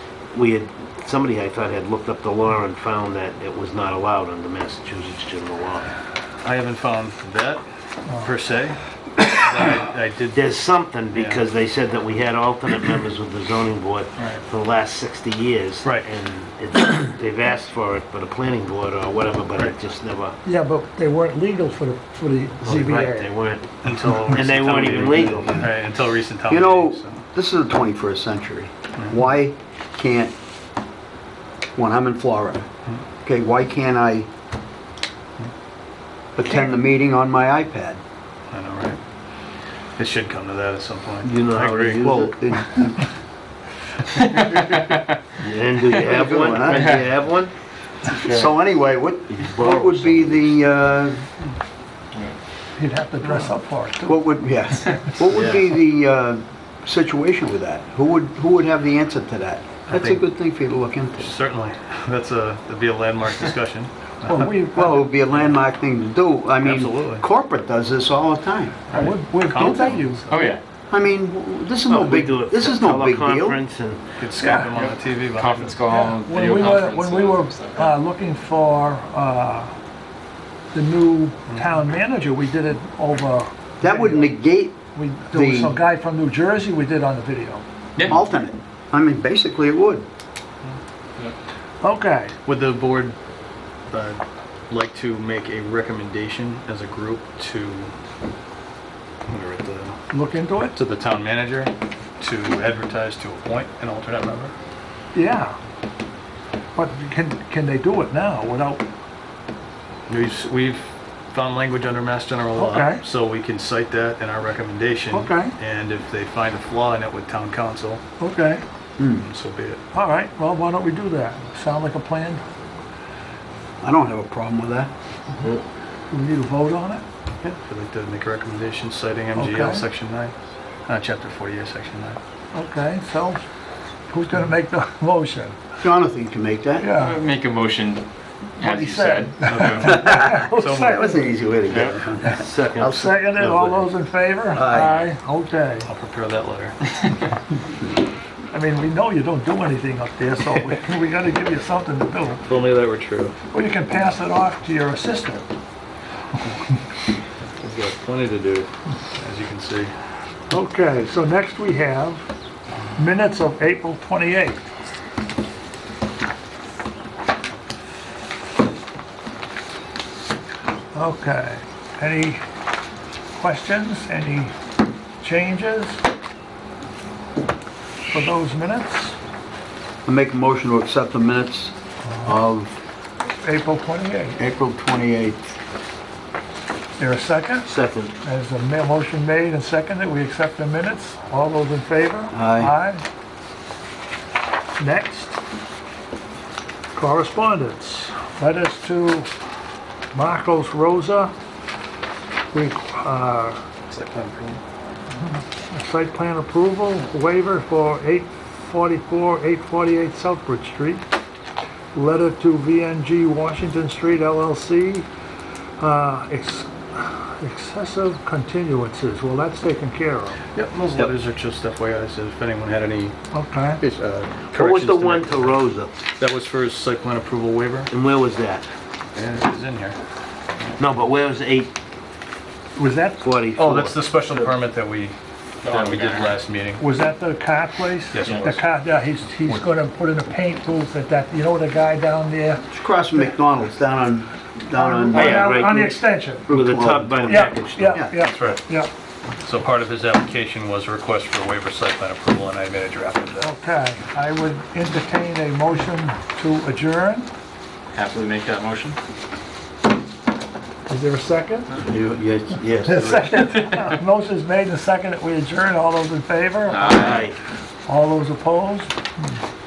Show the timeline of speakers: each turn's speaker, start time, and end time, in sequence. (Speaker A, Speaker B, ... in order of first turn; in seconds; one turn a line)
Speaker A: 0.3-5.9
Speaker B: 6.4-8.8
Speaker C: 8.1-8.3
Speaker B: 9.3-10.4
Speaker A: 10.3-20.4
Speaker B: 11.1-11.4
Speaker B: 14.2-14.4
Speaker B: 15.8-16.1
Speaker C: 20.4-23.3
Speaker A: 22.6-25.6
Speaker B: 23.8-27.2
Speaker D: 25.0-25.7
Speaker D: 26.5-30.3
Speaker B: 29.0-29.2
Speaker D: 31.8-32.7
Speaker D: 33.2-34.3
Speaker D: 36.4-38.0
Speaker B: 38.5-39.0
Speaker B: 40.0-42.1
Speaker A: 41.2-42.3
Speaker D: 41.9-43.1
Speaker E: 44.2-45.0
Speaker A: 45.4-47.5
Speaker D: 45.9-46.9
Speaker E: 46.6-47.2
Speaker E: 48.1-48.5
Speaker D: 48.2-51.2
Speaker A: 49.3-50.6
Speaker C: 52.8-54.2
Speaker D: 54.0-61.3
Speaker A: 55.3-55.7
Speaker B: 59.9-60.2
Speaker B: 61.2-64.5
Speaker C: 64.2-65.0
Speaker D: 64.7-68.8
Speaker B: 65.3-65.6
Speaker B: 66.6-67.2
Speaker B: 68.9-70.6
Speaker C: 68.9-70.3
Speaker D: 69.5-70.0
Speaker E: 70.3-70.6
Speaker D: 70.9-73.6
Speaker A: 71.9-74.0
Speaker B: 74.2-75.8
Speaker C: 74.4-74.7
Speaker E: 74.7-77.9
Speaker C: 75.8-79.7
Speaker C: 80.7-84.3
Speaker D: 83.8-84.8
Speaker C: 84.9-87.6
Speaker D: 85.3-85.8
Speaker D: 88.0-90.0
Speaker C: 91.8-92.4
Speaker B: 92.4-93.2
Speaker B: 93.9-97.9
Speaker B: 99.3-100.0
Speaker C: 100.1-100.8
Speaker B: 100.6-104.5
Speaker C: 105.1-105.5
Speaker C: 106.8-108.8
Speaker B: 110.1-118.0
Speaker C: 112.5-113.0
Speaker C: 115.1-115.5
Speaker C: 118.2-118.6
Speaker D: 119.0-119.3
Speaker B: 119.2-119.8
Speaker C: 119.9-122.4
Speaker D: 123.8-124.9
Speaker C: 126.1-127.0
Speaker B: 127.4-130.3
Speaker C: 129.3-129.8
Speaker B: 130.9-132.2
Speaker C: 132.5-133.4
Speaker C: 134.1-135.6
Speaker D: 135.8-136.9
Speaker C: 136.8-137.2
Speaker E: 136.9-138.0
Speaker E: 138.6-140.0
Speaker C: 138.6-141.3
Speaker B: 139.4-141.0
Speaker D: 139.8-143.2
Speaker E: 141.7-141.9
Speaker A: 142.3-143.9
Speaker C: 142.9-145.9
Speaker D: 144.5-145.0
Speaker B: 145.8-146.8
Speaker C: 148.5-152.4
Speaker B: 152.4-153.3
Speaker C: 153.5-155.4
Speaker B: 157.6-159.9
Speaker C: 160.5-162.2
Speaker C: 162.9-164.6
Speaker C: 170.9-172.4
Speaker C: 173.3-174.5
Speaker C: 175.2-176.0
Speaker C: 178.1-179.2
Speaker D: 180.1-182.8
Speaker C: 183.4-184.4
Speaker D: 184.4-185.4
Speaker C: 187.0-187.7
Speaker A: 187.6-188.1
Speaker C: 188.2-193.0
Speaker D: 192.3-192.7
Speaker C: 194.8-195.3
Speaker C: 196.9-199.3
Speaker C: 200.1-201.3
Speaker C: 202.5-203.6
Speaker B: 203.9-204.6
Speaker C: 205.2-211.0
Speaker C: 211.9-215.1
Speaker C: 215.8-220.4
Speaker B: 220.5-223.1
Speaker C: 223.3-223.8
Speaker B: 223.8-225.6
Speaker A: 224.5-225.9
Speaker B: 226.2-227.9
Speaker A: 227.9-228.7
Speaker B: 229.1-230.0
Speaker A: 230.8-231.7
Speaker C: 232.8-233.2
Speaker A: 233.2-234.0
Speaker B: 233.6-235.1
Speaker E: 235.6-236.4
Speaker B: 235.7-236.8
Speaker C: 236.8-242.7
Speaker B: 238.1-238.6
Speaker E: 238.2-238.6
Speaker D: 242.7-245.5
Speaker C: 244.7-246.5
Speaker A: 245.1-248.0
Speaker D: 246.5-248.2
Speaker C: 247.3-248.9
Speaker B: 248.2-248.6
Speaker B: 249.4-253.5
Speaker C: 253.4-257.3
Speaker E: 257.9-259.0
Speaker C: 260.9-261.8
Speaker D: 261.8-263.3
Speaker C: 262.8-266.9
Speaker E: 266.7-267.3
Speaker A: 266.8-267.4
Speaker C: 267.9-269.2